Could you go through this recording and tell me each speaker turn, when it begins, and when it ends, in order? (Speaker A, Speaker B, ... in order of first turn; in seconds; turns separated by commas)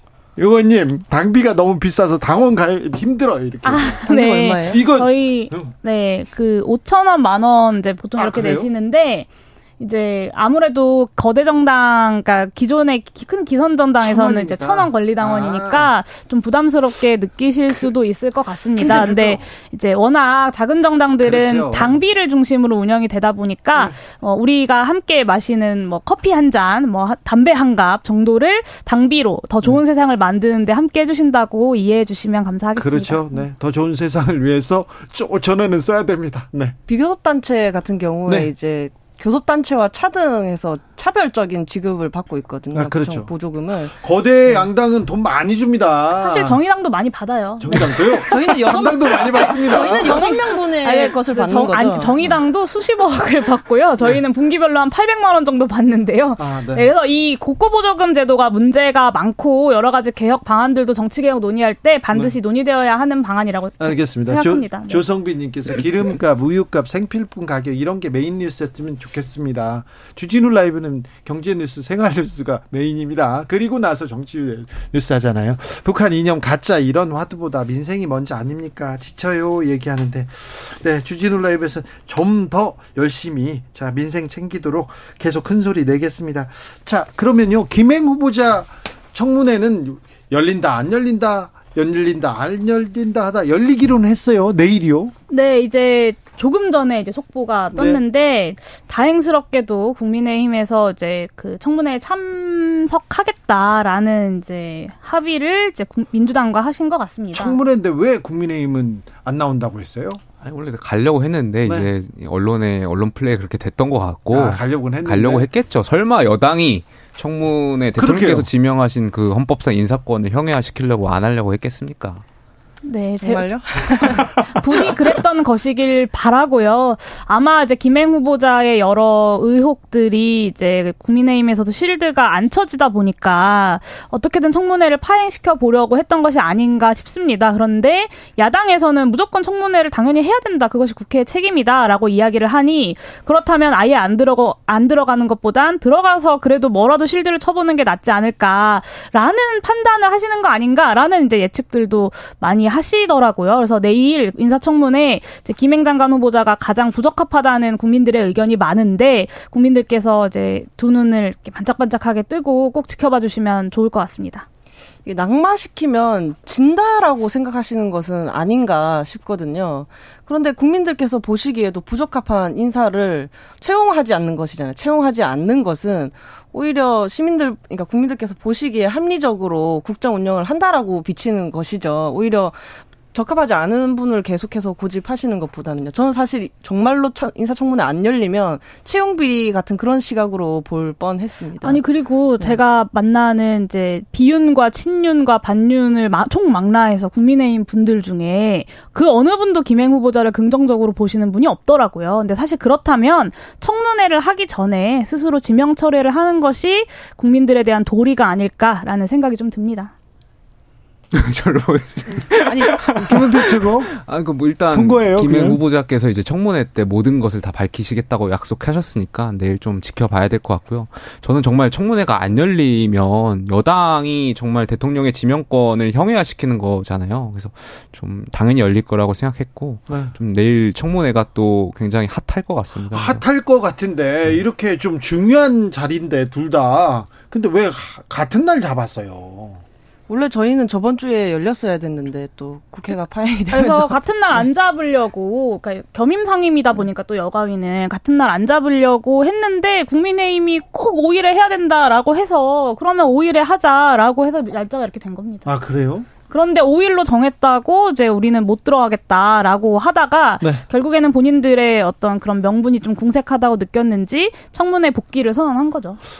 Speaker A: 0.3-4.0, Speaker B: 3.6-33.4, Speaker C: 4.0-4.8, Speaker A: 4.6-5.7, Speaker A: 8.2-8.7, Speaker A: 14.0-15.9, Speaker A: 18.8-19.5, Speaker A: 21.2-22.0, Speaker A: 32.8-36.8, Speaker C: 36.9-44.6, Speaker A: 38.2-38.5, Speaker A: 42.7-43.3, Speaker A: 43.9-46.6, Speaker B: 46.2-65.0, Speaker A: 47.6-50.3, Speaker C: 47.7-52.4, Speaker A: 56.4-56.9, Speaker A: 63.8-95.1, Speaker B: 95.3-107.6, Speaker A: 97.7-98.0, Speaker A: 107.3-110.2, Speaker D: 110.4-122.2, Speaker A: 114.3-115.5, Speaker A: 118.0-118.5, Speaker B: 122.8-164.4, Speaker C: 123.2-124.3, Speaker C: 165.0-191.8, Speaker B: 191.6-209.9, Speaker D: 211.1-233.2, Speaker C: 212.4-212.9, Speaker A: 213.0-213.9, Speaker A: 214.7-215.6, Speaker A: 232.9-239.6, Speaker C: 240.1-243.9, Speaker B: 243.5-255.5, Speaker A: 255.4-256.1, Speaker B: 256.3-266.0